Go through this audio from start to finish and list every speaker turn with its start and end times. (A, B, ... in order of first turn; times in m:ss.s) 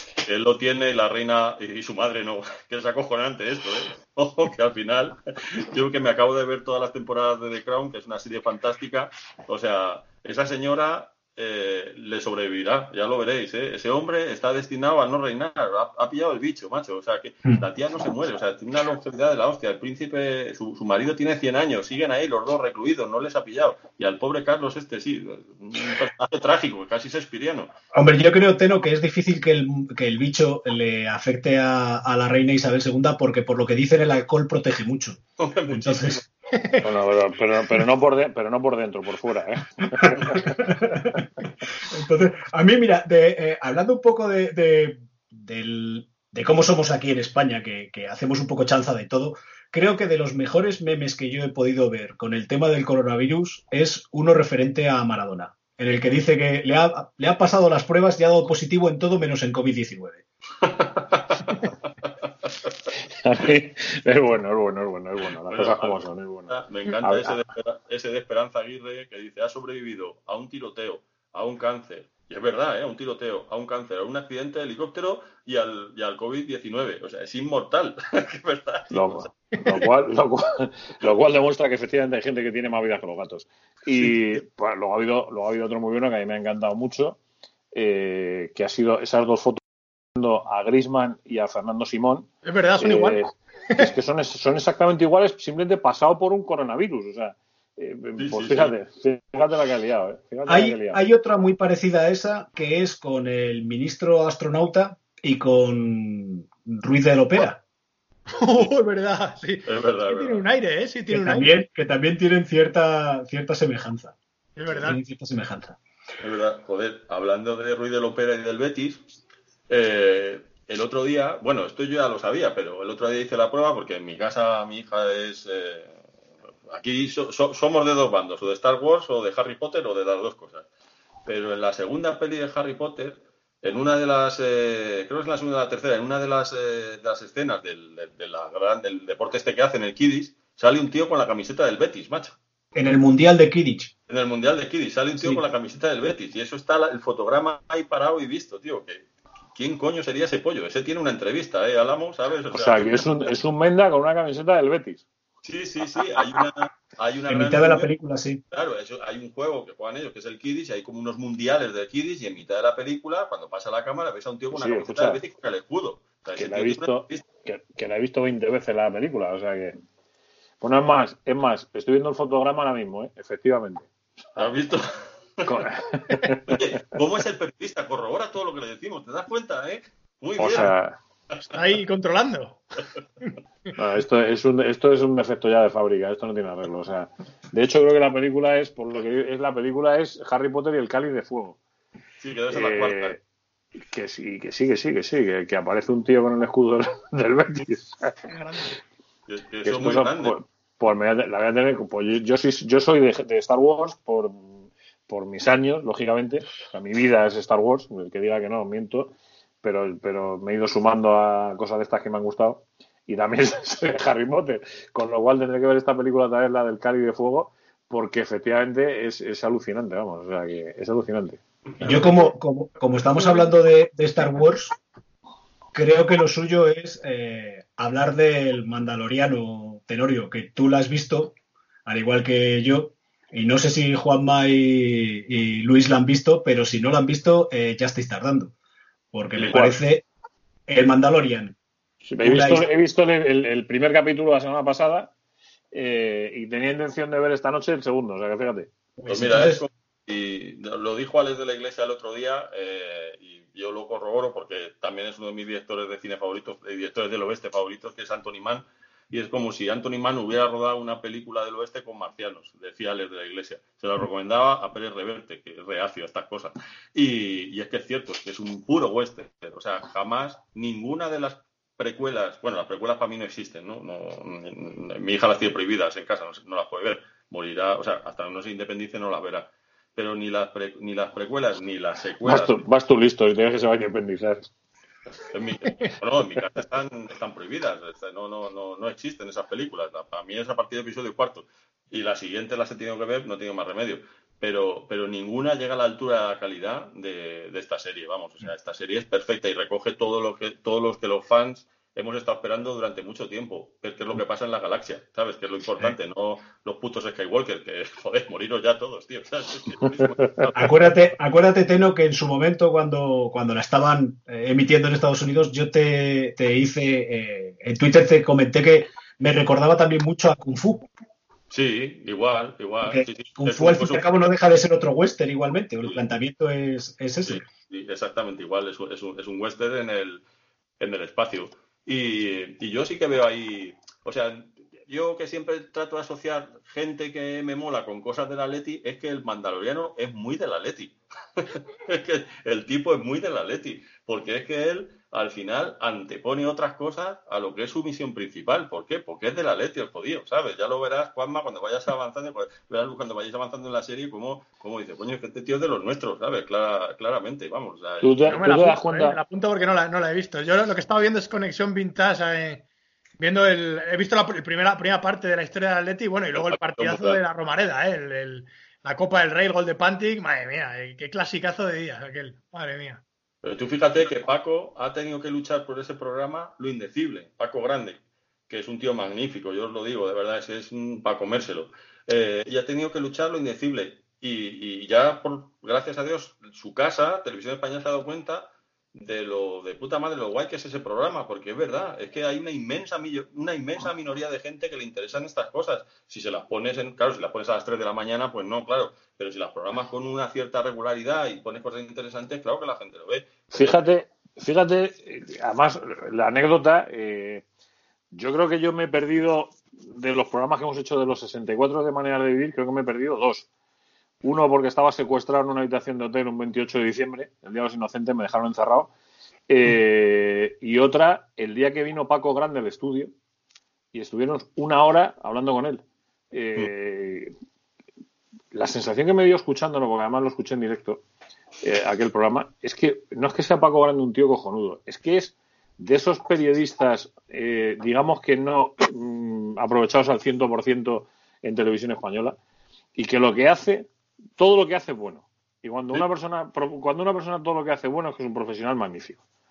0:00.2-0:27.7 A
0:27.9-0:36.2 B
0:35.4-0:36.2 A
0:36.5-0:36.8 C
0:36.8-0:40.4 D
0:40.0-1:00.2 B
1:00.6-1:01.7 A
1:03.2-1:07.4 D
1:05.5-1:19.3 A
1:18.9-1:27.2 D
1:27.7-1:29.6 D
1:30.1-1:41.0 D
1:32.4-1:33.2 C
1:38.2-1:38.7 A
1:40.5-1:47.6 B
1:48.4-1:51.5 C
1:49.7-1:50.4 A
1:51.1-1:54.2 B
1:54.6-1:55.0 C
1:54.7-1:55.8 B
1:56.2-1:59.0 A
1:59.7-2:06.0 A
2:06.7-2:10.7 A
2:11.2-2:22.4 A
2:22.7-2:23.9 B
2:24.1-2:33.1 A
2:32.5-2:35.0 D
2:35.4-2:37.9 A
2:37.3-2:38.4 B
2:38.5-2:47.2 A
2:44.5-2:45.2 D
2:46.4-2:49.8 D
2:50.6-2:54.4 D
2:54.4-2:54.8 A
2:55.4-2:56.6 D
2:56.5-3:00.7 A
3:00.4-3:01.0 D
3:01.5-3:02.6 C
3:03.8-3:11.6 D
3:12.2-3:13.2 A
3:12.5-3:13.2 D
3:13.9-3:18.2 D
3:18.3-3:18.8 C
3:19.3-3:20.4 A
3:19.6-3:41.4 D
3:41.8-3:44.7 B
3:45.7-3:51.3 B
3:51.8-3:58.5 B
3:59.1-4:00.0 B
3:59.4-3:59.8 D
4:00.7-4:01.6 B
4:02.0-4:05.1 D
4:02.2-4:02.7 B
4:05.7-4:08.7 D
4:09.0-4:09.6 B
4:09.1-4:42.6 A
4:42.2-4:44.5 D
4:45.3-5:10.9 A
5:10.0-5:10.3 D
5:10.5-5:20.9 B
5:21.5-5:24.2 A
5:22.8-5:27.4 B
5:27.2-5:30.2 A
5:30.8-5:58.4 A
5:58.0-5:59.2 D
5:58.3-6:02.6 C
6:03.2-6:13.0 C
6:06.3-6:07.2 A
6:13.4-6:43.8 A
6:43.5-6:47.4 D
6:48.1-6:53.5 D
6:54.2-6:58.9 D
6:59.5-7:03.1 D
7:03.9-7:07.3 D
7:08.5-7:11.0 D
7:11.6-7:22.4 D
7:22.9-7:29.2 D